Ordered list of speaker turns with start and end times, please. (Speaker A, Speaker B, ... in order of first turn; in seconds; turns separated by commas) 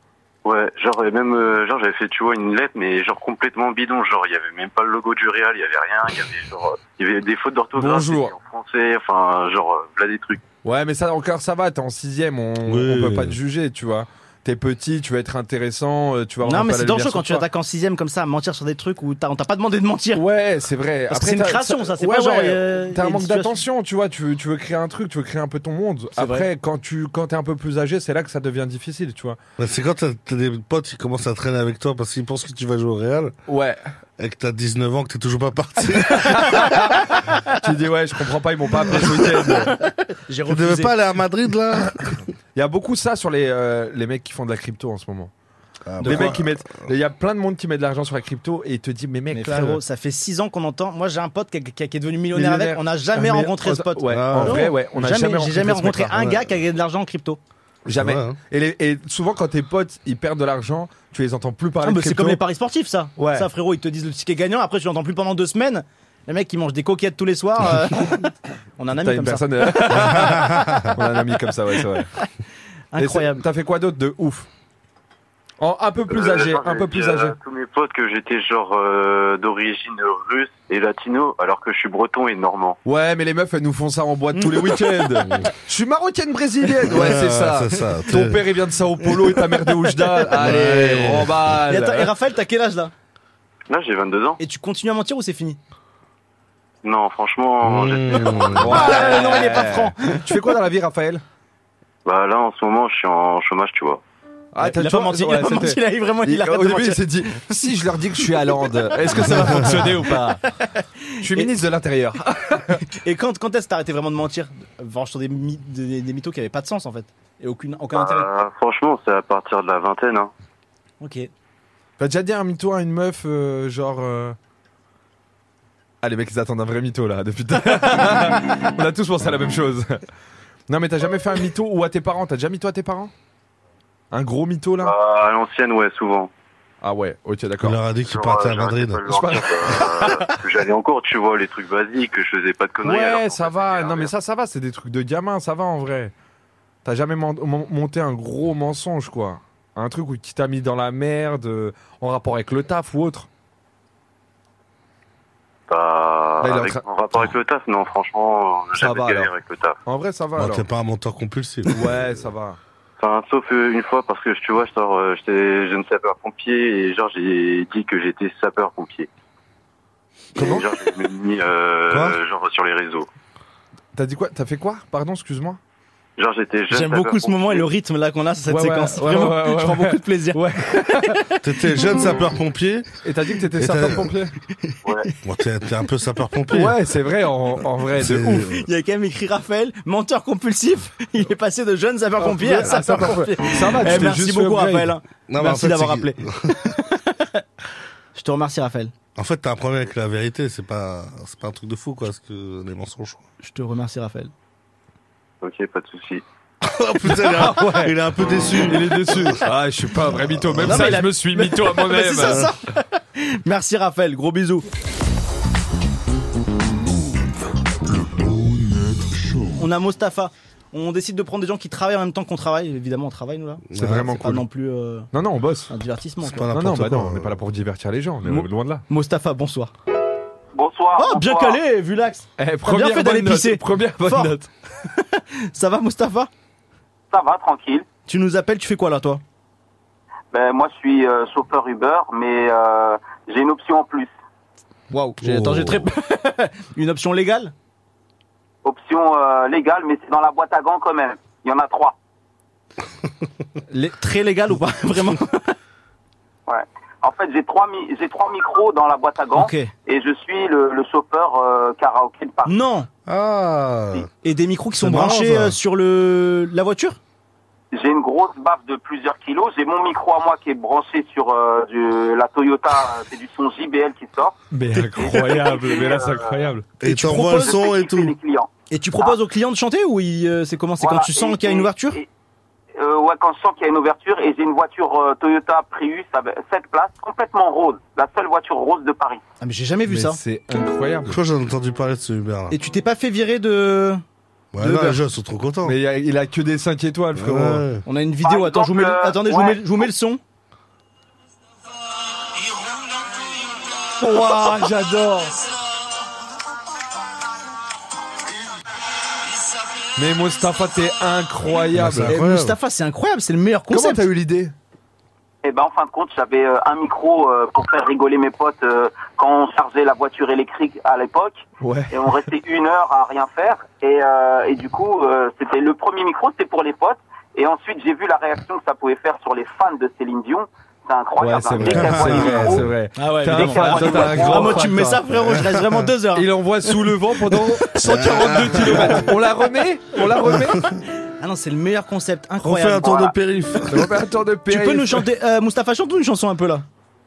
Speaker A: 0.4-10.4, Speaker B: 7.7-8.3, Speaker B: 10.6-17.4, Speaker C: 12.6-13.4, Speaker D: 16.4-20.2, Speaker B: 20.1-29.4, Speaker D: 21.1-23.6, Speaker D: 26.2-26.4, Speaker C: 29.6-33.3, Speaker B: 33.5-33.8, Speaker C: 34.2-36.7, Speaker B: 36.1-39.7, Speaker D: 39.8-40.9, Speaker C: 40.5-42.1, Speaker B: 42.5-45.3, Speaker C: 45.9-46.9, Speaker B: 46.0-49.8, Speaker D: 49.3-57.4, Speaker B: 52.3-56.2, Speaker C: 54.1-54.7, Speaker C: 56.2-56.5, Speaker C: 57.9-58.4, Speaker B: 57.9-62.4, Speaker D: 61.8-70.8, Speaker B: 63.2-63.5, Speaker B: 69.0-72.1, Speaker C: 70.2-70.6, Speaker D: 72.9-73.4, Speaker B: 73.0-74.5, Speaker B: 75.6-77.3, Speaker A: 76.1-82.8, Speaker B: 82.8-92.1, Speaker D: 84.3-85.2, Speaker C: 86.8-88.4, Speaker C: 90.3-91.4, Speaker D: 90.3-91.1, Speaker D: 91.7-92.9, Speaker A: 93.7-94.4, Speaker D: 94.4-95.6, Speaker A: 96.8-98.8, Speaker C: 97.6-99.0, Speaker B: 98.5-101.2, Speaker D: 98.7-100.2, Speaker A: 102.0-104.0, Speaker B: 104.5-110.4, Speaker D: 104.6-107.7, Speaker D: 108.3-111.5, Speaker B: 111.2-112.8, Speaker D: 113.0-118.3, Speaker A: 117.9-120.3, Speaker D: 121.0-121.3, Speaker B: 122.0-124.3, Speaker B: 126.0-130.0, Speaker B: 130.7-133.1, Speaker B: 134.1-134.9, Speaker A: 134.8-136.3, Speaker B: 136.8-137.8, Speaker C: 137.6-139.1, Speaker A: 137.9-144.1, Speaker B: 139.1-140.4, Speaker B: 142.8-146.1, Speaker B: 146.8-153.3, Speaker A: 155.7-159.8, Speaker B: 156.4-156.8, Speaker B: 158.8-159.3, Speaker B: 159.8-160.7, Speaker C: 160.4-162.2, Speaker B: 161.7-162.6, Speaker A: 163.0-169.1, Speaker A: 170.3-173.1, Speaker C: 170.4-170.6, Speaker C: 171.9-172.2, Speaker B: 173.9-175.6, Speaker A: 176.2-177.7, Speaker D: 176.7-181.4, Speaker B: 178.5-181.2, Speaker C: 181.4-182.9, Speaker B: 183.0-184.3, Speaker C: 183.6-184.1, Speaker D: 184.7-185.1, Speaker A: 184.8-185.1, Speaker C: 185.2-186.8, Speaker B: 186.5-188.6, Speaker C: 188.0-188.6, Speaker D: 188.5-196.2, Speaker B: 192.2-194.9, Speaker C: 192.7-193.1, Speaker C: 195.3-196.7, Speaker D: 196.7-197.4, Speaker D: 198.1-198.9, Speaker C: 199.2-203.2, Speaker D: 203.4-204.3, Speaker A: 205.4-206.2, Speaker C: 206.6-209.2, Speaker B: 207.1-207.9, Speaker B: 208.6-212.5, Speaker C: 210.3-210.7, Speaker D: 210.6-214.7, Speaker D: 219.6-225.1, Speaker C: 223.7-224.2, Speaker B: 223.8-224.4, Speaker B: 225.1-225.7, Speaker D: 225.7-226.4, Speaker C: 226.2-227.4, Speaker B: 226.5-228.8, Speaker D: 228.2-229.7, Speaker E: 230.5-231.6, Speaker D: 231.0-236.3, Speaker B: 232.4-234.5, Speaker E: 237.1-237.9, Speaker D: 238.1-239.2, Speaker E: 240.3-244.1, Speaker D: 244.9-247.5, Speaker C: 245.2-245.9, Speaker E: 248.6-251.9, Speaker D: 253.7-255.5, Speaker E: 256.5-262.6, Speaker D: 259.3-259.7, Speaker D: 262.4-262.9, Speaker C: 263.1-264.1, Speaker D: 264.2-267.0, Speaker C: 264.8-265.6, Speaker E: 267.7-274.4, Speaker B: 274.5-276.6, Speaker D: 274.7-275.4, Speaker E: 275.0-276.4, Speaker C: 276.8-278.1, Speaker D: 276.8-277.6, Speaker E: 277.3-279.2, Speaker D: 278.7-282.0, Speaker E: 280.8-282.1, Speaker E: 282.8-289.2, Speaker D: 289.4-290.2, Speaker B: 289.9-291.1, Speaker C: 291.1-292.6, Speaker D: 292.5-294.0, Speaker C: 294.5-295.8, Speaker B: 294.6-295.0, Speaker B: 295.6-297.6, Speaker C: 297.1-297.8, Speaker D: 297.8-300.2, Speaker E: 298.2-299.9, Speaker B: 303.9-305.4, Speaker B: 309.9-312.1, Speaker C: 311.7-312.6, Speaker D: 312.1-314.0, Speaker B: 313.7-314.5, Speaker E: 315.4-332.6, Speaker B: 321.6-322.1, Speaker B: 331.2-335.0, Speaker C: 331.6-332.6, Speaker D: 331.9-336.3, Speaker E: 333.3-334.6, Speaker C: 335.1-335.9, Speaker B: 336.1-340.6, Speaker C: 337.8-339.1, Speaker D: 341.2-343.1, Speaker C: 342.4-343.9, Speaker B: 343.7-345.1, Speaker D: 344.5-346.6